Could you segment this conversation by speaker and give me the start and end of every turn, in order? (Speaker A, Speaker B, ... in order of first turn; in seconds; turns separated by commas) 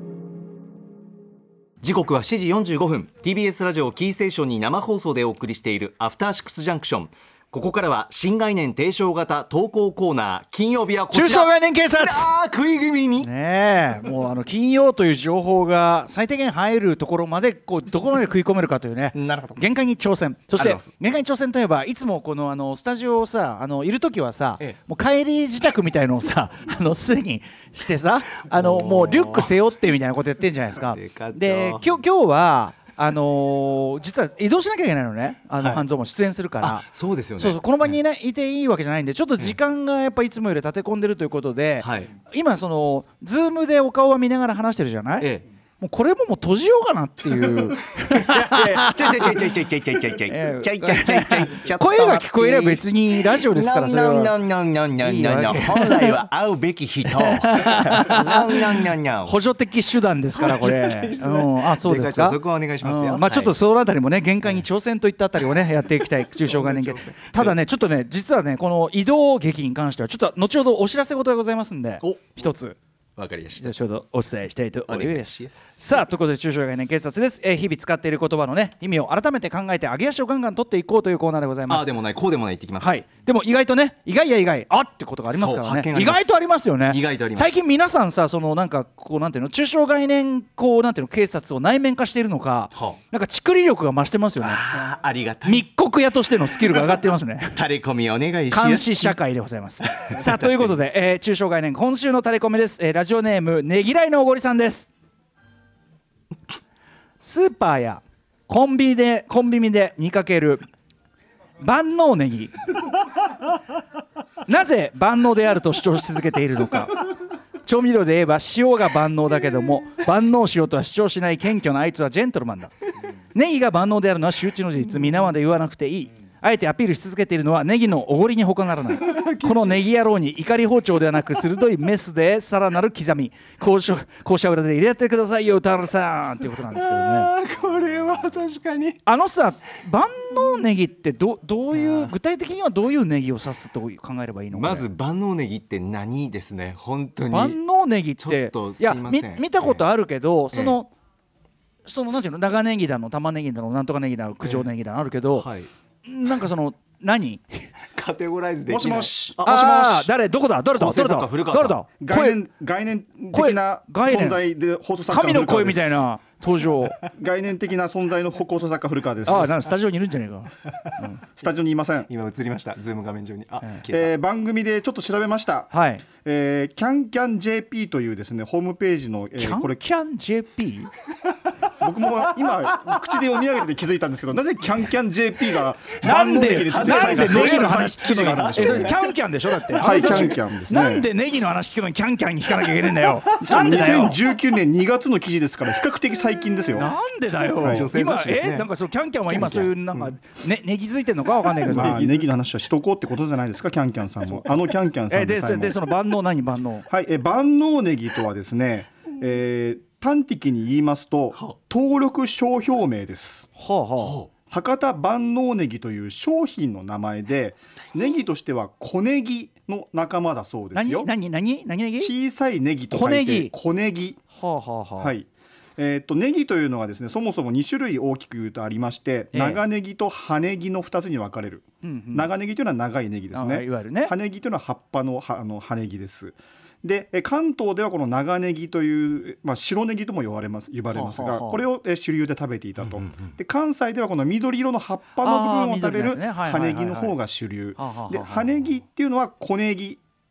Speaker A: 1.8-13.3, Speaker B: 11.1-12.3, Speaker B: 13.2-45.3, Speaker A: 19.1-19.6, Speaker A: 20.6-20.9, Speaker A: 28.5-29.5, Speaker A: 30.8-31.9, Speaker A: 36.6-37.9, Speaker A: 41.8-42.1, Speaker B: 45.8-49.4, Speaker A: 48.1-59.4, Speaker B: 50.3-54.4, Speaker B: 55.0-56.2, Speaker B: 57.1-72.8, Speaker A: 60.4-63.5, Speaker A: 66.3-67.6, Speaker A: 72.0-72.4, Speaker A: 73.2-73.7, Speaker B: 73.6-81.9, Speaker A: 74.9-75.7, Speaker A: 81.7-83.0, Speaker B: 82.8-94.6, Speaker A: 85.3-87.6, Speaker A: 94.4-95.7, Speaker B: 95.4-97.6, Speaker A: 96.7-97.0, Speaker A: 97.5-99.2, Speaker B: 98.5-104.9, Speaker A: 100.0-100.9, Speaker B: 107.2-110.6, Speaker B: 111.6-112.5, Speaker B: 114.5-117.0, Speaker B: 117.7-122.7, Speaker B: 123.3-137.3, Speaker A: 128.9-129.8, Speaker A: 136.7-139.0, Speaker B: 139.1-144.9, Speaker A: 141.7-142.1, Speaker A: 144.5-147.6, Speaker B: 147.3-150.9, Speaker A: 148.2-149.9, Speaker A: 150.5-150.8, Speaker B: 151.8-155.5, Speaker A: 154.4-154.7, Speaker A: 155.3-155.7, Speaker B: 156.1-157.7, Speaker A: 157.9-159.6, Speaker C: 158.7-160.1, Speaker B: 159.4-162.4, Speaker A: 160.8-161.8, Speaker C: 162.0-166.1, Speaker B: 163.3-164.4, Speaker B: 165.1-167.0, Speaker C: 167.1-169.5, Speaker B: 169.2-171.2, Speaker C: 171.3-172.1, Speaker A: 172.1-174.1, Speaker C: 173.9-179.8, Speaker B: 175.7-176.0, Speaker B: 179.4-180.9, Speaker C: 181.8-189.0, Speaker B: 186.0-194.2, Speaker A: 186.7-189.1, Speaker A: 189.7-190.3, Speaker C: 189.8-191.1, Speaker C: 193.4-196.9, Speaker B: 196.7-202.0, Speaker A: 197.6-198.7, Speaker C: 197.6-197.9, Speaker A: 199.3-199.8, Speaker A: 201.6-202.1, Speaker C: 201.7-205.8, Speaker B: 205.1-206.9, Speaker C: 206.9-213.5, Speaker B: 213.6-214.2, Speaker A: 214.0-214.3, Speaker C: 214.5-221.1, Speaker B: 220.7-222.1, Speaker C: 222.0-224.2, Speaker B: 222.9-223.5, Speaker B: 224.3-225.1, Speaker C: 225.0-250.0, Speaker B: 229.3-229.6, Speaker B: 231.8-232.3, Speaker B: 233.3-234.1, Speaker B: 240.9-241.7, Speaker B: 245.2-247.2, Speaker B: 247.8-248.5